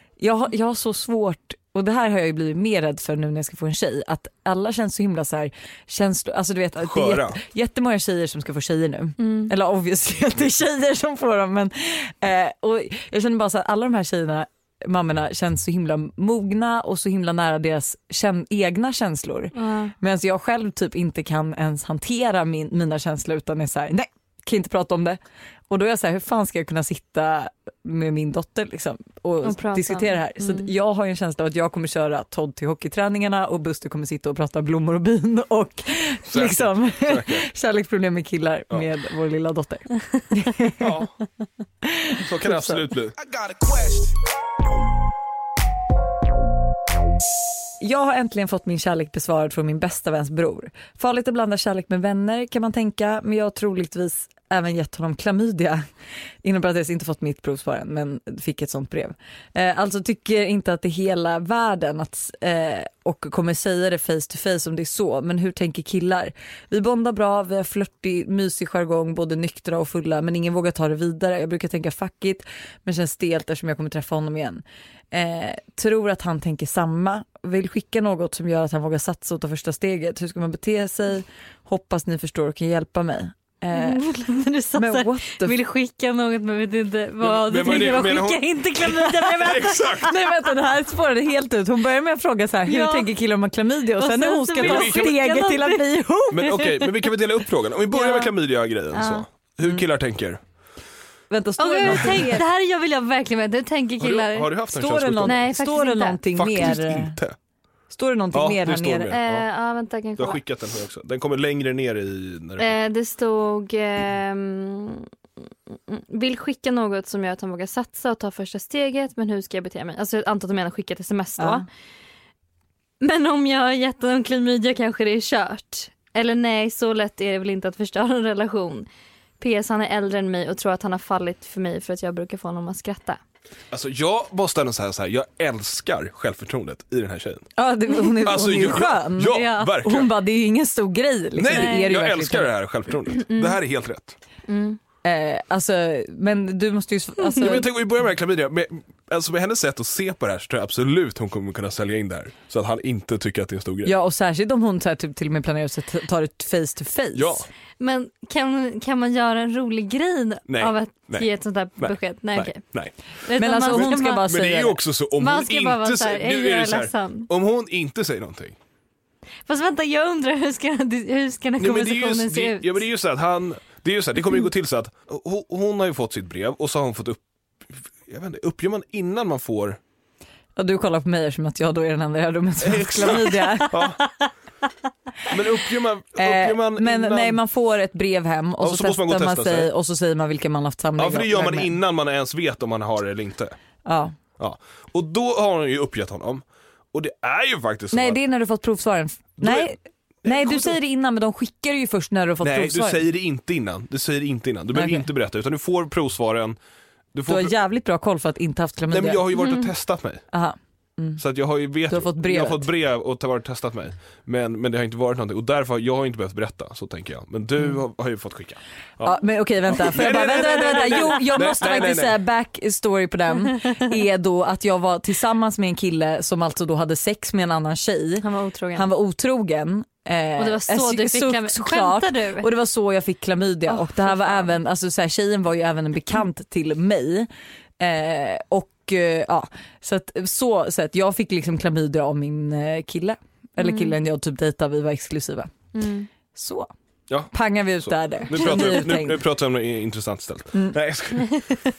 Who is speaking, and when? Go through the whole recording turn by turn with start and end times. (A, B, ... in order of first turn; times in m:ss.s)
0:00.2-0:25.2 A
0:06.8-0:07.4 B
0:09.2-0:09.5 C
0:19.6-0:19.9 C
0:25.7-0:41.0 A
0:29.4-0:30.7 C
0:36.3-0:37.5 B
0:40.8-0:41.1 B
0:41.8-0:42.9 A
0:42.2-0:44.2 B
0:47.8-0:55.8 A
0:56.4-1:24.0 A
1:23.7-1:30.0 C
1:24.8-1:25.6 A
1:27.2-1:30.2 B
1:29.9-1:37.0 A
1:32.7-1:33.1 C
1:34.0-1:36.0 C
1:34.6-1:35.2 B
1:36.3-1:40.4 B
1:37.9-1:38.3 A
1:38.9-1:39.3 C
1:41.3-1:42.4 A
1:41.6-1:44.5 C
1:44.0-1:45.6 B
1:44.7-1:47.2 A
1:45.2-1:46.4 C
1:46.4-1:47.4 B
1:47.9-1:49.2 A
1:48.3-1:49.5 B
1:49.1-1:50.4 C
1:50.2-1:52.8 B
1:52.6-1:55.1 C
1:55.9-2:01.7 C
2:01.4-2:01.6 A
2:03.0-2:08.9 C
2:09.4-2:13.2 C
2:13.7-2:17.5 B
2:17.6-2:22.5 A
2:18.2-2:20.1 B
2:19.3-2:19.7 C
2:21.4-2:24.2 B
2:21.5-2:21.9 C
2:23.3-2:23.6 C
2:24.5-2:24.8 C
2:25.0-2:27.7 A
2:27.4-2:33.9 B
2:33.8-2:37.5 A
2:37.1-2:37.5 B
2:37.8-2:42.6 C
2:40.5-2:43.0 B
2:43.2-2:44.3 C
2:43.4-2:44.8 A
2:43.7-2:48.6 B
2:45.2-2:47.3 C
2:49.5-2:52.8 C
2:51.6-2:59.8 B
3:00.6-3:03.9 A
3:02.6-3:04.0 B
3:05.3-3:07.4 B
3:06.2-3:11.7 A
3:08.6-3:09.7 B
3:11.0-3:13.6 B
3:13.8-3:14.2 A
3:14.4-3:18.2 B
3:17.9-3:23.0 A
3:19.4-3:20.8 B
3:22.4-3:26.6 B
3:24.7-3:25.1 A
3:27.1-3:27.6 B
3:27.3-3:29.4 A
3:28.9-3:30.2 B
3:30.3-3:31.2 A
3:31.2-3:42.2 B
3:31.9-3:32.7 A
3:39.0-3:57.3 A
3:48.2-3:48.9 C
3:50.4-3:52.5 C
3:53.7-3:54.5 C
3:57.8-4:05.5 A
4:03.6-4:04.0 C
4:05.7-4:06.1 C
4:06.3-4:06.7 A
4:07.1-4:11.4 B
4:07.3-4:09.2 A